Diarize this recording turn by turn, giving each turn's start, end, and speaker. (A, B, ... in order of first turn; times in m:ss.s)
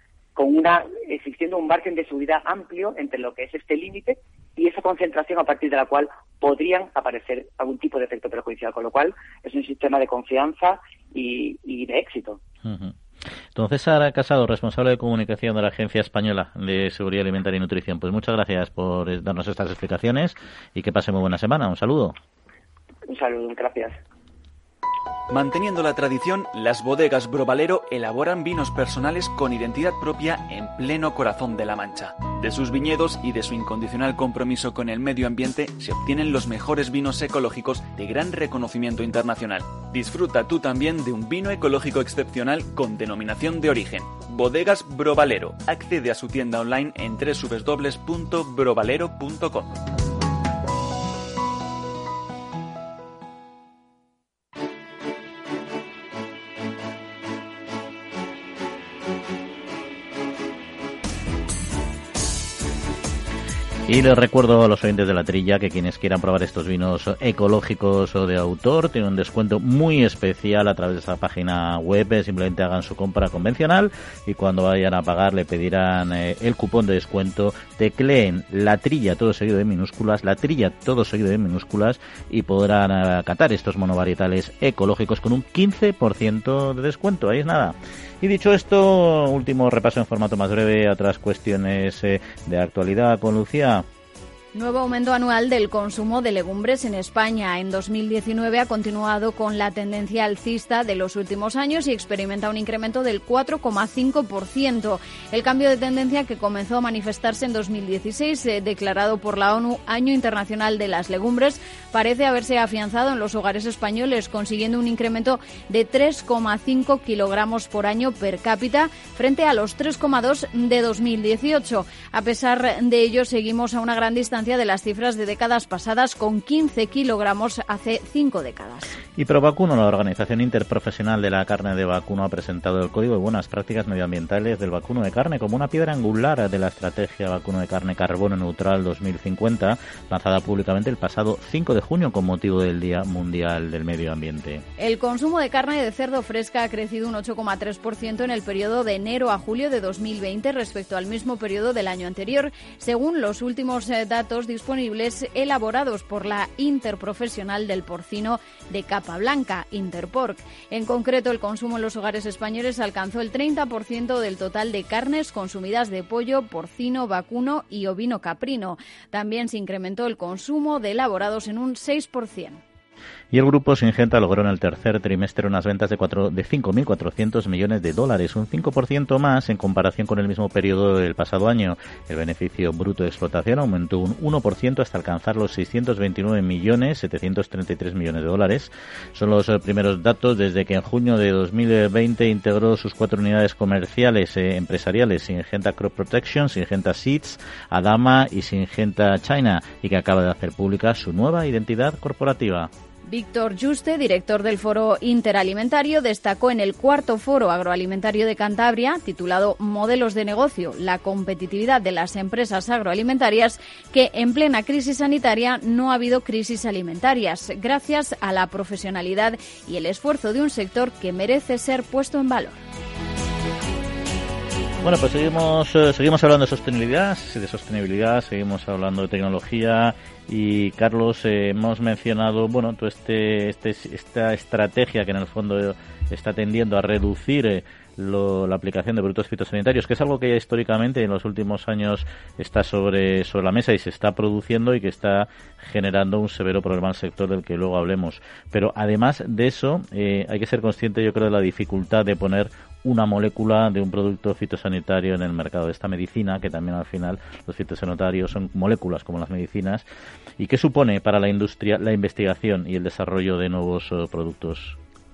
0:00.4-0:12.4 A
0:12.6-0:13.0 B
0:13.5-0:22.2 B
0:23.1-0:24.0 A
0:25.3-0:49.8 C
1:03.9-1:33.8 B
1:34.5-2:09.0 D
2:09.2-2:24.6 B
2:24.8-2:52.6 D
2:53.3-3:22.7 B
3:23.1-3:42.6 D
3:44.8-4:19.8 B
4:20.4-4:24.8 B